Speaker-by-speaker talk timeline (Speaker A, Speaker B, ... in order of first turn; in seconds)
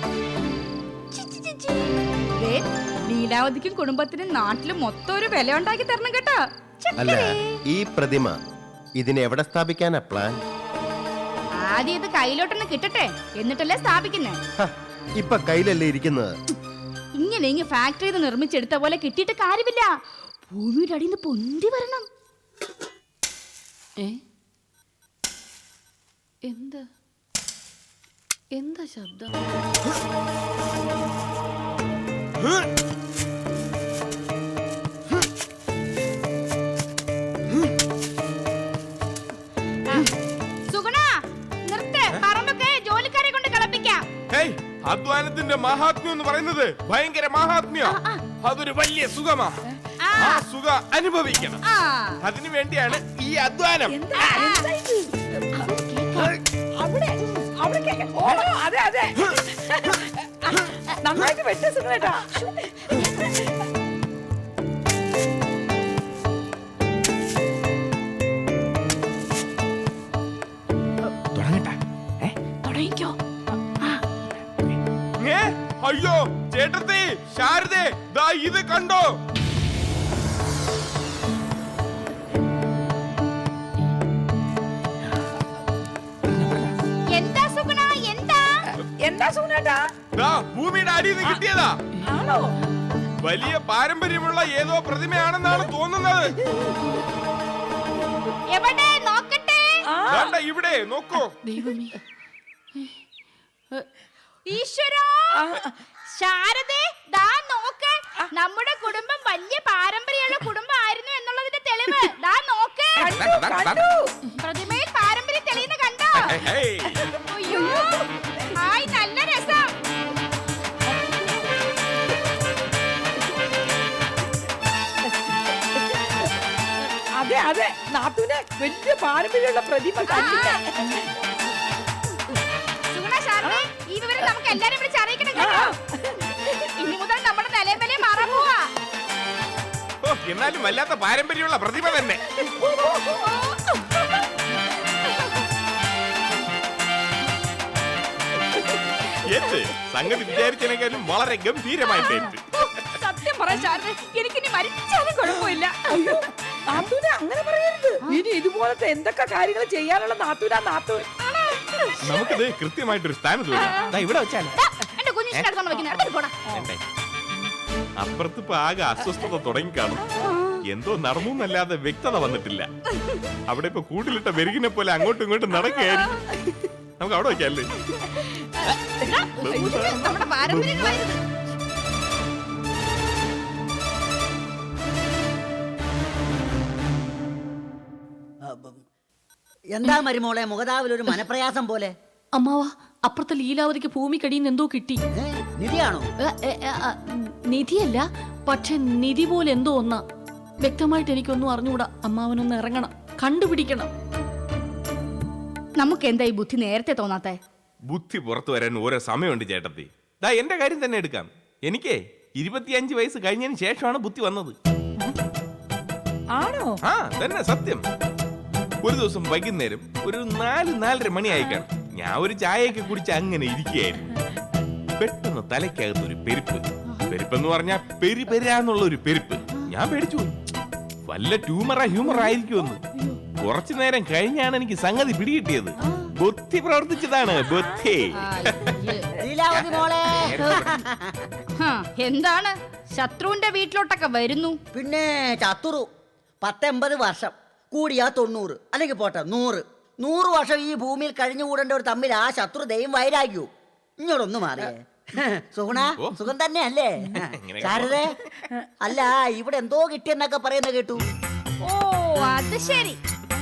Speaker A: 1.1-7.6, 11.6-14.4, 17.2-19.9, 20.5-22.1, 40.7-44.0, 47.9-48.2, 50.0-50.4, 51.6-52.2, 54.2-54.7, 55.6-56.3, 72.7-73.1, 87.1-88.7, 98.5-99.9, 104.5-105.5, 106.1-113.3, 114.4-116.4, 117.3-119.7, 130.1-130.6, 132.9-135.8, 136.3-138.7, 142.6-144.2, 145.1-145.4, 153.4-156.3, 161.2-162.3, 164.6-166.4, 170.3-170.6, 178.0-181.2, 205.8-207.4, 238.2-239.1, 241.6-244.6, 261.6-263.0
Speaker B: 7.0-8.4, 9.0-10.4, 14.6-16.3
Speaker C: 26.4-26.8, 28.6-29.3, 101.4-102.0, 192.3-195.0, 196.2-200.0, 200.6-203.9
Speaker D: 44.3-49.6, 50.2-51.6, 52.2-54.0, 71.3-72.4, 75.2-79.2, 90.2-91.8, 93.2-96.4, 100.1-101.4, 113.1-113.8, 116.2-117.1, 140.0-142.2, 149.3-152.4, 162.0-164.6, 165.3-165.9, 166.5-166.8, 168.0-170.1, 170.7-172.7, 173.5-176.2, 177.0-177.9, 178.7-181.1, 207.9-214.6, 216.9-217.8, 218.8-224.1, 225.0-230.3, 231.1-232.8, 233.4-238.8, 239.5-240.8, 257.4-258.4
Speaker E: 53.9-63.5, 89.0-89.9, 92.1-92.6, 99.9-100.4, 105.3-105.8, 113.0-114.1, 117.5-118.5, 120.9-121.5, 125.8-126.3, 127.2-131.1, 135.4-136.1, 142.7-142.9, 153.0-153.7, 155.2-161.1, 216.3-216.8
Speaker F: 188.4-188.8, 189.7-191.9, 195.1-196.1, 239.2-241.3, 244.7-245.9, 246.4-253.5, 254.0-258.1, 258.8-261.1